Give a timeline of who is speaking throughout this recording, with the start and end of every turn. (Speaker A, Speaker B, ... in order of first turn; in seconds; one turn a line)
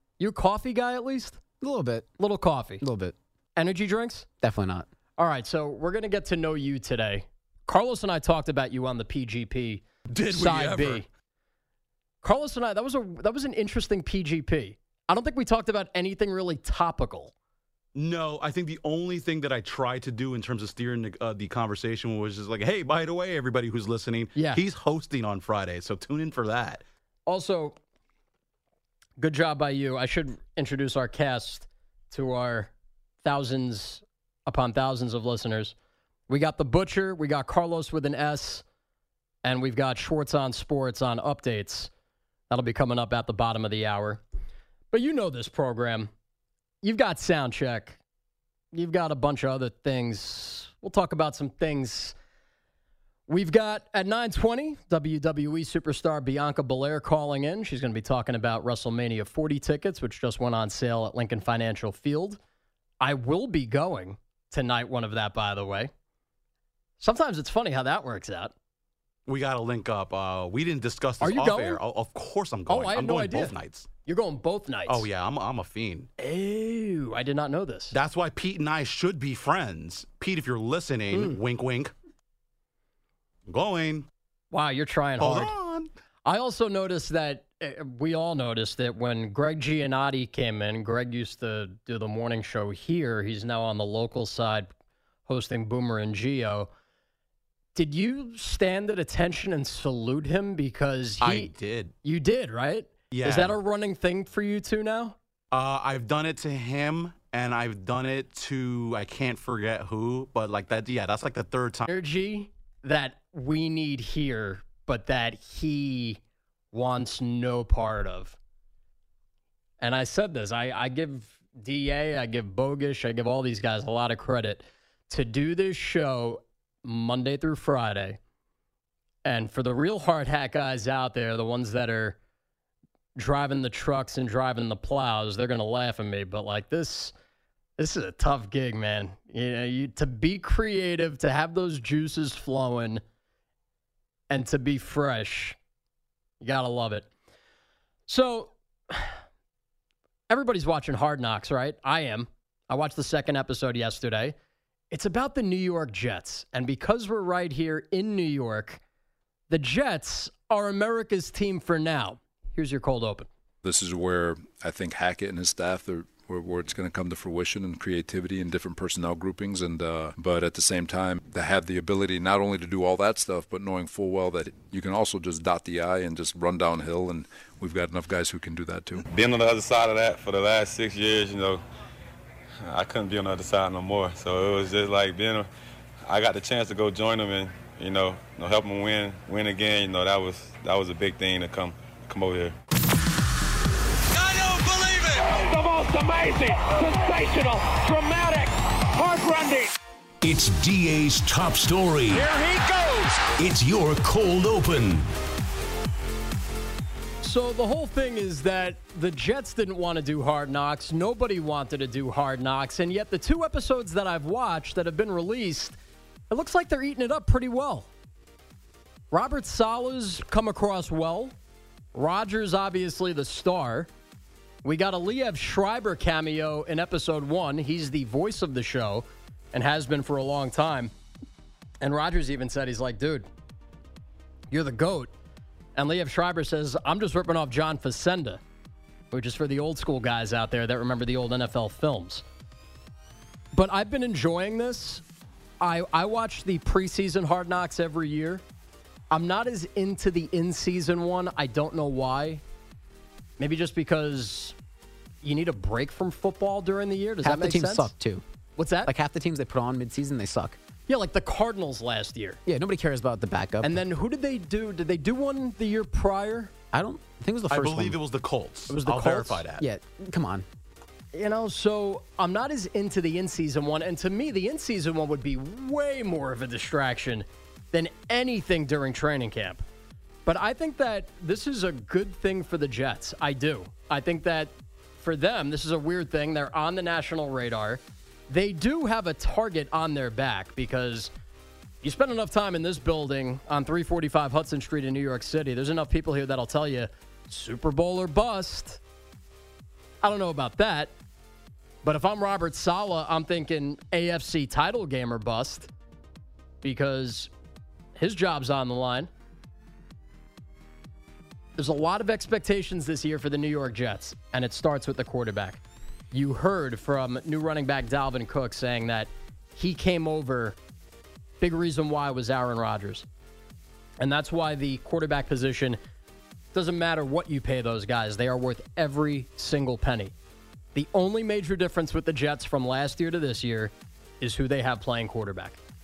Speaker A: 0.2-1.4
Speaker B: 1.6-2.1
Speaker A: 2.2-2.8
Speaker B: 2.8-3.1
Speaker A: 3.6-4.3
Speaker B: 4.4-4.9
Speaker A: 5.2-11.1
Speaker C: 10.1-11.0
Speaker A: 12.2-17.3
Speaker C: 17.9-26.8
Speaker A: 24.3-24.6
Speaker A: 27.3-27.8
Speaker A: 29.2-32.7
Speaker A: 33.2-35.7
Speaker A: 36.3-38.6
Speaker A: 39.4-41.9
Speaker A: 42.5-44.2
Speaker A: 44.9-46.1
Speaker A: 46.8-48.0
Speaker A: 48.7-52.1
Speaker A: 53.3-62.4
Speaker A: 63.0-65.9
Speaker A: 67.0-68.5
Speaker C: 69.2-73.9
Speaker A: 71.2-71.8
Speaker A: 72.7-73.5
Speaker A: 74.0-75.0
Speaker C: 74.9-76.1
Speaker A: 76.2-77.9
Speaker C: 77.9-81.9
Speaker C: 83.5-84.1
Speaker A: 84.5-85.5
Speaker C: 85.2-85.9
Speaker A: 86.2-94.7
Speaker A: 95.2-96.7
Speaker A: 97.7-101.5
Speaker C: 101.2-101.9
Speaker A: 102.0-105.2
Speaker C: 103.1-103.6
Speaker C: 105.5-111.8
Speaker A: 111.8-116.2
Speaker A: 116.7-118.4
Speaker A: 119.8-128.2
Speaker A: 129.2-132.2
Speaker A: 133.2-137.1
Speaker A: 137.8-143.0
Speaker A: 144.3-145.6
Speaker A: 146.4-147.1
Speaker A: 148.1-149.2
Speaker A: 150.3-154.3
Speaker A: 154.9-158.8
Speaker A: 159.5-163.3
Speaker D: 163.6-179.0
Speaker E: 179.1-181.6
Speaker E: 182.6-185.5
Speaker E: 186.0-192.5
Speaker F: 195.1-199.7
Speaker G: 200.2-202.3
Speaker F: 202.4-202.8
Speaker G: 203.2-205.1
Speaker A: 207.2-215.8
Speaker A: 216.3-217.9
Speaker A: 219.1-221.3
Speaker A: 221.9-223.9
Speaker A: 224.6-230.9
Speaker A: 231.8-233.3
Speaker A: 234.5-235.1
Speaker A: 235.8-238.4
Speaker A: 239.1-242.2
Speaker A: 243.5-245.0
Speaker A: 245.6-248.4
Speaker A: 249.1-252.4
Speaker A: 253.4-254.6
Speaker A: 255.2-257.9
Speaker B: 257.2-258.2
Speaker A: 258.6-258.9
Speaker B: 258.9-260.6
Speaker A: 260.9-262.4
Speaker B: 262.4-263.8
Speaker A: 263.6-266.5
Speaker B: 266.7-268.0
Speaker C: 267.5-269.6
Speaker A: 268.7-269.4
Speaker B: 269.6-270.4
Speaker A: 271.1-279.6
Speaker A: 280.2-291.1
Speaker A: 291.8-298.8
Speaker A: 300.0-300.9
Speaker A: 301.8-305.7
Speaker A: 306.6-307.3
Speaker A: 308.0-309.1
Speaker A: 311.6-315.6
Speaker A: 316.1-320.6
Speaker A: 321.4-323.1
Speaker A: 324.0-325.8
Speaker A: 326.5-330.1
Speaker A: 330.7-335.6